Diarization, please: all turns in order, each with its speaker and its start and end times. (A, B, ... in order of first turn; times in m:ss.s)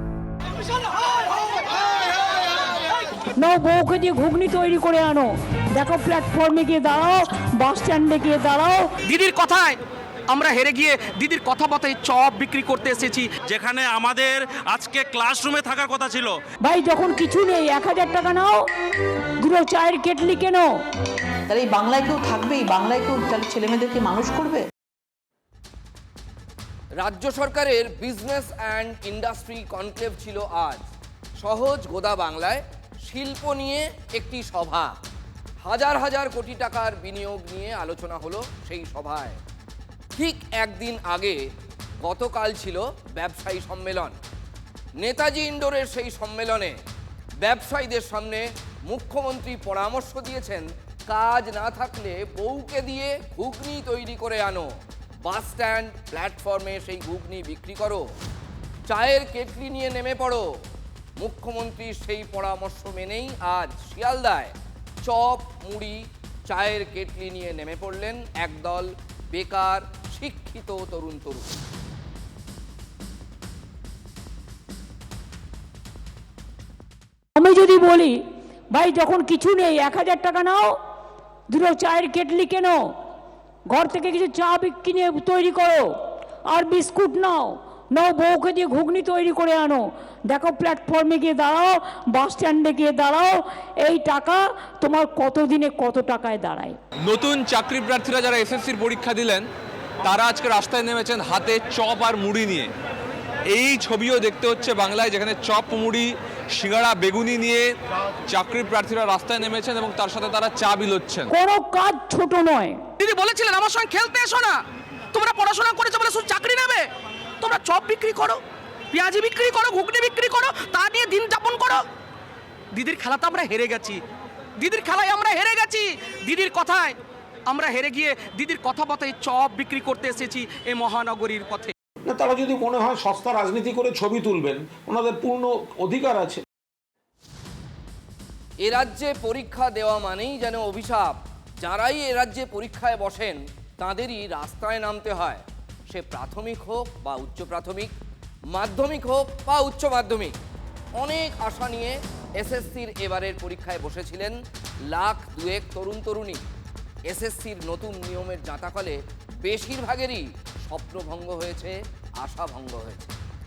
0:03.4-0:08.9 A
0:09.0-0:09.8 B
0:10.3-0:13.3 B
0:13.4-0:16.4 C
0:16.6-0:18.7 A
0:19.4-0:20.7 A
0:21.5-0:24.6 D
0:27.0-0:30.8 E
0:31.4-0:34.9 E
0:35.6-0:39.4 E
0:40.2-0:41.4 E
0:42.0-0:44.2 E
0:45.0-0:46.7 E
0:47.4-0:54.7 E
0:55.2-0:58.0 E
0:58.9-1:00.5 E
1:01.2-1:04.5 E
1:05.0-1:11.5 E
1:17.4-1:20.8 A
1:21.5-1:23.0 A
1:23.7-1:36.8 A
1:37.0-1:39.5 F
1:40.0-1:42.7 F
1:43.5-1:47.8 F
1:48.3-1:51.3 F
1:51.3-1:52.8 A
1:53.0-1:54.6 B
1:55.1-1:56.9 B
1:57.4-2:01.8 B
2:02.7-2:04.0 B
2:04.6-2:07.0 B
2:07.5-2:11.7 B
2:12.1-2:16.4 G
2:18.6-2:27.9 E
2:28.5-2:30.3 E
2:31.0-2:34.4 E
2:34.9-2:36.4 E
2:37.1-2:43.1 E